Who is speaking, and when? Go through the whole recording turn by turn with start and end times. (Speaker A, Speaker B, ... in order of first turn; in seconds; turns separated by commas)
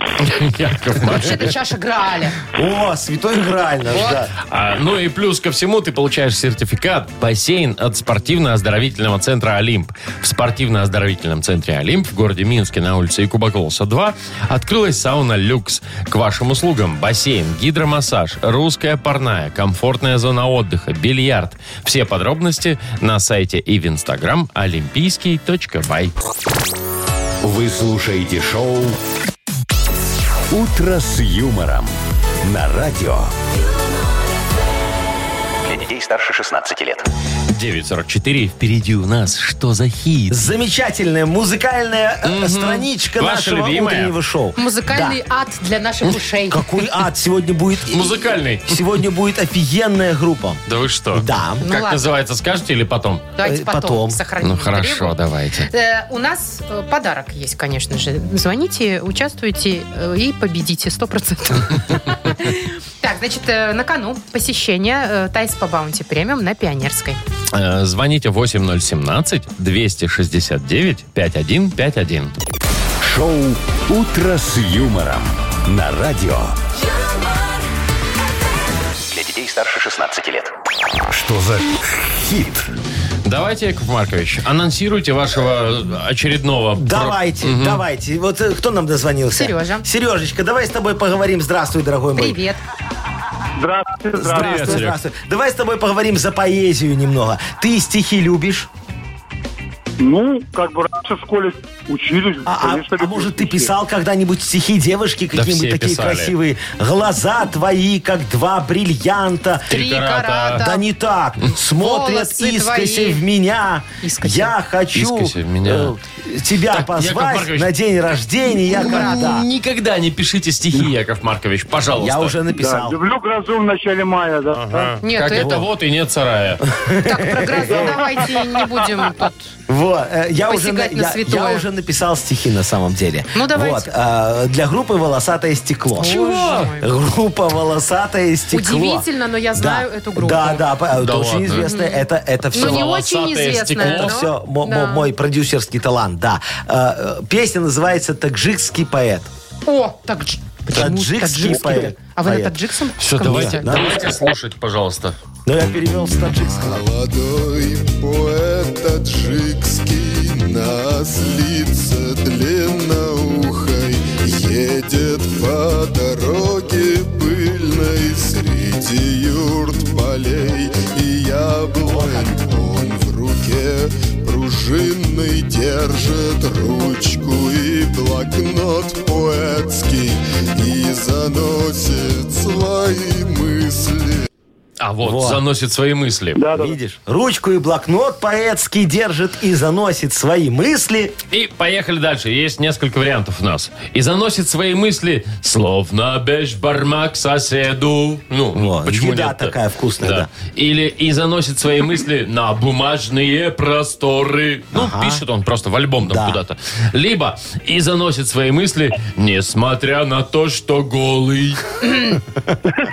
Speaker A: 0.2-1.6, Speaker B: 1.0-2.4, Speaker C: 2.5-4.3, Speaker A: 3.9-26.1, Speaker D: 27.4-29.0, Speaker D: 30.5-33.3, Speaker E: 35.6-37.1, Speaker A: 37.5-40.4, Speaker C: 40.3-45.2, Speaker A: 42.2-44.1, Speaker B: 44.6-46.6, Speaker C: 46.5-50.6, Speaker A: 47.9-48.8, Speaker A: 50.7-53.3, Speaker C: 51.1-51.6, Speaker B: 51.6-52.0, Speaker B: 53.4-55.1, Speaker C: 53.4-54.2, Speaker A: 54.4-55.7, Speaker B: 55.7-67.2, Speaker A: 67.5-72.3, Speaker D: 73.0-76.5, Speaker E: 79.1-80.5, Speaker D: 81.1-82.7, Speaker A: 83.2-87.8, Speaker C: 86.7-92.4, Speaker B: 89.3-89.8, Speaker B: 92.2-92.6, Speaker F: 93.6-94.8, Speaker C: 94.2-98.7, Speaker A: 94.3-95.0, Speaker F: 100.0-103.7, Speaker C: 102.4-109.7, Speaker A: 105.3-106.3, Speaker A: 109.7-110.7, Speaker B: 109.7-110.8, Speaker C: 110.5-119.5, Speaker B: 111.7-113.2, Speaker B: 114.0-114.5, Speaker A: 114.9-116.0, Speaker A: 116.7-117.7, Speaker A: 118.6-122.3, Speaker C: 121.9-123.0, Speaker F: 122.5-125.0, Speaker A: 124.5-126.6, Speaker B: 125.0-125.6, Speaker C: 125.3-125.7, Speaker C: 126.6-128.2, Speaker B: 127.0-129.5, Speaker C: 129.7-142.9, Speaker B: 130.4-131.6, Speaker B: 133.3-133.9, Speaker B: 135.9-136.9, Speaker A: 136.0-136.7, Speaker B: 138.5-140.7, Speaker A: 140.9-141.7, Speaker B: 141.6-145.1, Speaker A: 142.5-144.2, Speaker C: 143.8-149.3, Speaker B: 149.7-153.9, Speaker C: 150.7-152.6, Speaker A: 153.0-155.2, Speaker C: 153.2-154.2, Speaker C: 155.4-156.8, Speaker G: 156.3-184.3, Speaker C: 171.8-172.3, Speaker A: 184.8-186.4, Speaker C: 185.0-185.4, Speaker F: 186.3-186.8, Speaker C: 186.5-191.1, Speaker A: 191.3-211.8, Speaker C: 198.5-200.3, Speaker C: 204.7-205.2, Speaker C: 206.0-206.4, Speaker B: 211.8-212.2